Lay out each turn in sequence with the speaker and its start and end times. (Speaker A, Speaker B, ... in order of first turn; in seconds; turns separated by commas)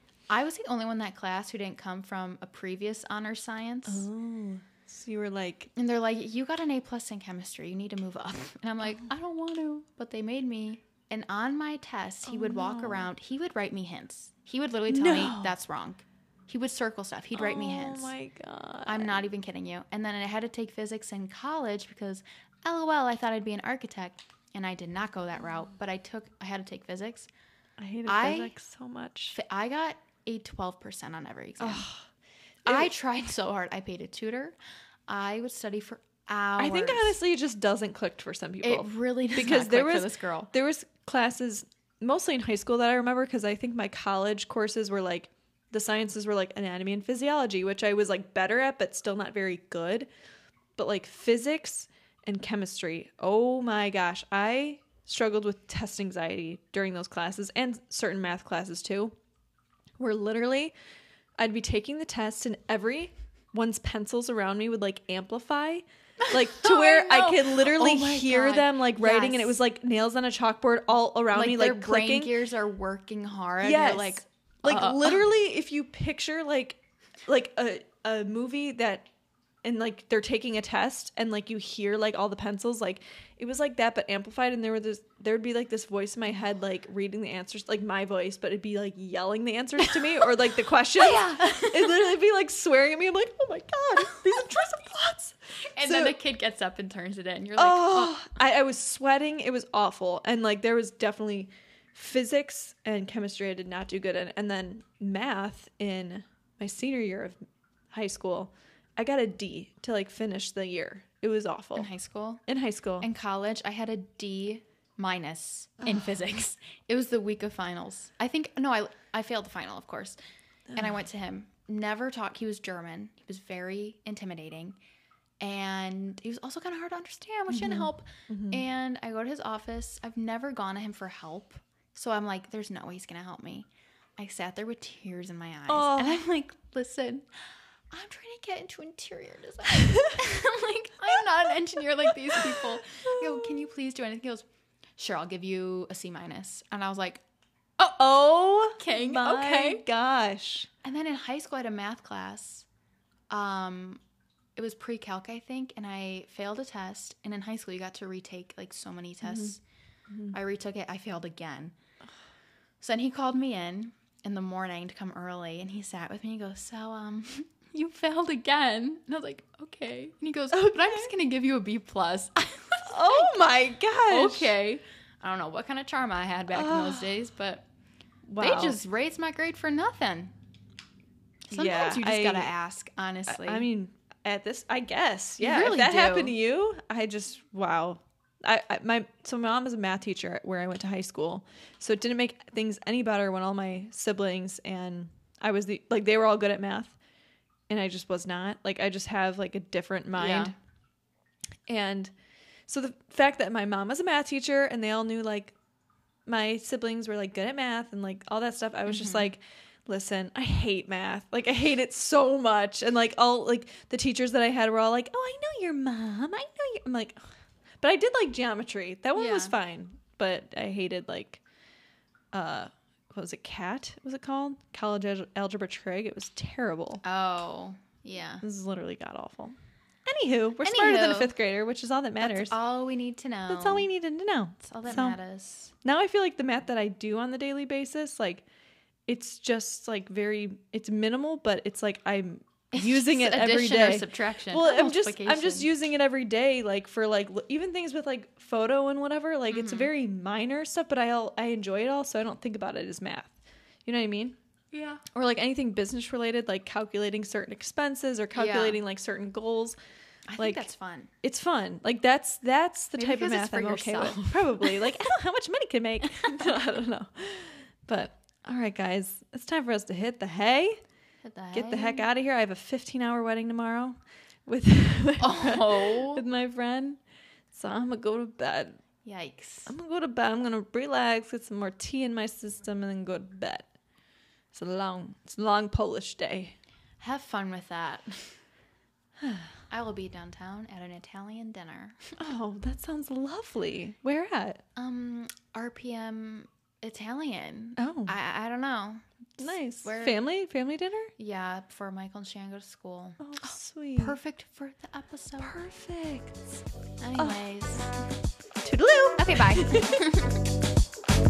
Speaker A: 0.3-4.1, Speaker B: 3.9-5.7, Speaker A: 5.7-18.1, Speaker B: 12.2-13.1, Speaker B: 14.9-15.5, Speaker B: 17.3-19.2, Speaker A: 18.9-27.3, Speaker B: 27.8-29.4, Speaker A: 28.1-28.5, Speaker A: 29.3-31.9, Speaker B: 31.6-32.0, Speaker B: 32.6-32.9, Speaker A: 32.6-34.5, Speaker A: 35.1-37.2, Speaker B: 36.6-50.1, Speaker A: 38.6-40.5, Speaker B: 50.8-59.1, Speaker B: 60.0-60.7, Speaker B: 61.4-72.4, Speaker A: 66.2-69.5, Speaker A: 71.3-75.2, Speaker B: 73.6-79.1, Speaker B: 79.6-96.2, Speaker A: 89.8-90.1, Speaker A: 91.0-92.0, Speaker A: 95.7-98.2, Speaker B: 97.6-107.4, Speaker B: 107.9-111.9, Speaker A: 111.8-112.4, Speaker B: 112.5-113.1, Speaker A: 113.0-120.2, Speaker B: 120.7-121.0, Speaker A: 120.8-124.8, Speaker A: 125.4-137.3, Speaker B: 127.5-128.6, Speaker B: 135.7-136.2, Speaker A: 137.9-144.4, Speaker B: 142.3-143.7, Speaker A: 145.0-147.2, Speaker B: 148.0-150.7, Speaker A: 148.7-149.8, Speaker A: 150.8-152.7, Speaker A: 153.3-154.0, Speaker A: 154.6-159.6, Speaker B: 159.2-159.5, Speaker B: 160.1-160.3, Speaker A: 160.3-161.7, Speaker A: 162.8-173.5, Speaker B: 170.5-171.1, Speaker B: 172.9-174.5, Speaker A: 174.1-177.7, Speaker B: 176.5-177.1, Speaker B: 178.3-178.8, Speaker A: 178.4-180.3, Speaker A: 181.5-183.7, Speaker B: 181.5-182.5, Speaker B: 183.3-196.9, Speaker A: 185.4-186.3, Speaker B: 197.7-200.5, Speaker A: 200.1-200.5, Speaker B: 201.7-202.1, Speaker B: 202.7-205.5, Speaker B: 206.2-217.2, Speaker A: 208.9-209.3, Speaker B: 217.8-221.4, Speaker A: 219.2-219.6, Speaker B: 222.3-227.0, Speaker A: 227.0-228.4, Speaker B: 228.4-232.5, Speaker A: 230.6-231.3, Speaker A: 232.2-233.9, Speaker B: 233.5-235.2, Speaker A: 234.6-235.7, Speaker B: 235.8-238.4, Speaker B: 239.1-254.4, Speaker A: 242.7-245.7, Speaker A: 249.5-249.9, Speaker A: 254.7-255.0, Speaker B: 255.1-259.8, Speaker A: 258.3-258.8, Speaker A: 260.3-261.1, Speaker B: 260.4-260.7, Speaker B: 261.2-270.8, Speaker A: 262.9-264.9, Speaker A: 266.1-266.5, Speaker A: 271.2-272.1, Speaker B: 271.5-277.0, Speaker A: 275.2-276.2, Speaker B: 277.5-278.8, Speaker A: 279.0-279.7, Speaker B: 279.7-283.7, Speaker B: 284.5-286.6, Speaker A: 287.0-288.4, Speaker B: 289.2-289.5, Speaker A: 289.7-292.0, Speaker B: 292.2-294.6, Speaker A: 294.7-300.1, Speaker B: 297.8-298.1, Speaker B: 299.4-301.1, Speaker A: 301.2-305.6, Speaker B: 303.2-304.2, Speaker B: 305.4-306.6, Speaker A: 307.0-308.0, Speaker B: 308.6-310.1, Speaker A: 309.2-310.4